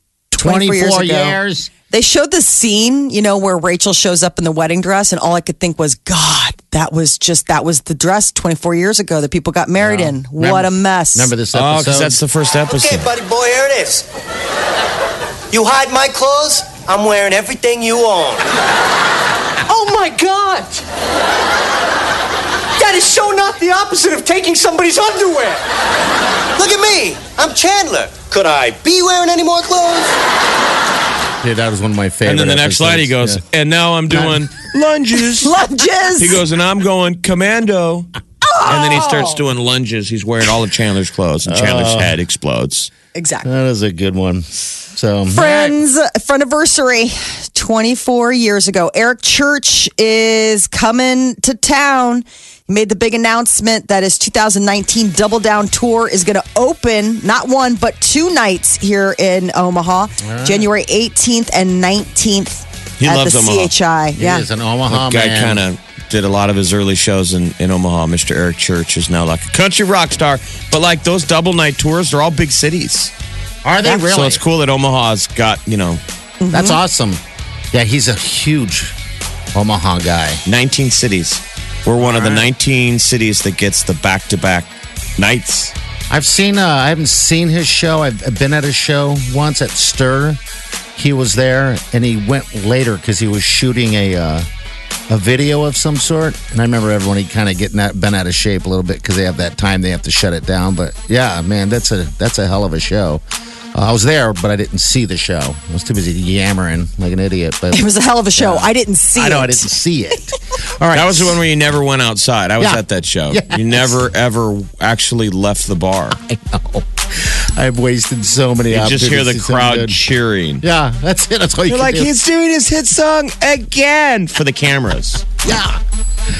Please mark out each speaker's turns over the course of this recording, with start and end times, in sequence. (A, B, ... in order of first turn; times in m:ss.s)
0:00.3-0:01.7 A
0:00.4-0:01.4 B
0:01.9-0:11.3 B
0:09.8-0:12.2 A
0:11.5-0:13.1 C
0:12.7-0:14.0 D
0:15.5-0:18.5 D
0:19.7-0:20.8 D
0:22.8-0:25.6 D
0:26.6-0:30.2 D
0:31.4-0:33.4 A
0:32.2-0:35.5 C
0:34.1-0:34.4 A
0:35.4-0:36.4 B
0:36.2-0:38.1 C
0:38.4-0:39.4 B
0:38.6-0:42.9 C
0:41.4-0:42.1 A
0:43.1-0:43.5 B
0:43.4-0:45.8 A
0:45.3-1:04.4 B
1:00.2-1:00.7 A
1:03.0-1:03.7 C
1:04.2-1:05.6 A
1:04.9-1:13.1 C
1:13.6-1:14.4 A
1:13.8-1:16.0 C
1:16.4-1:16.8 B
1:16.5-1:17.2 A
1:17.7-1:18.9 A
1:19.5-1:20.4 A
1:20.4-1:25.7 C
1:22.0-1:22.5 A
1:26.1-1:30.4 A
1:31.0-1:34.5 A
1:35.1-1:43.2 A
1:43.7-1:51.4 A
1:47.7-1:49.7 B
1:50.9-1:56.2 C
1:52.6-1:54.0 A
1:56.1-2:00.0 A
1:58.7-2:00.6 C
2:00.6-2:02.1 A
2:01.7-2:05.2 C
2:05.4-2:05.8 A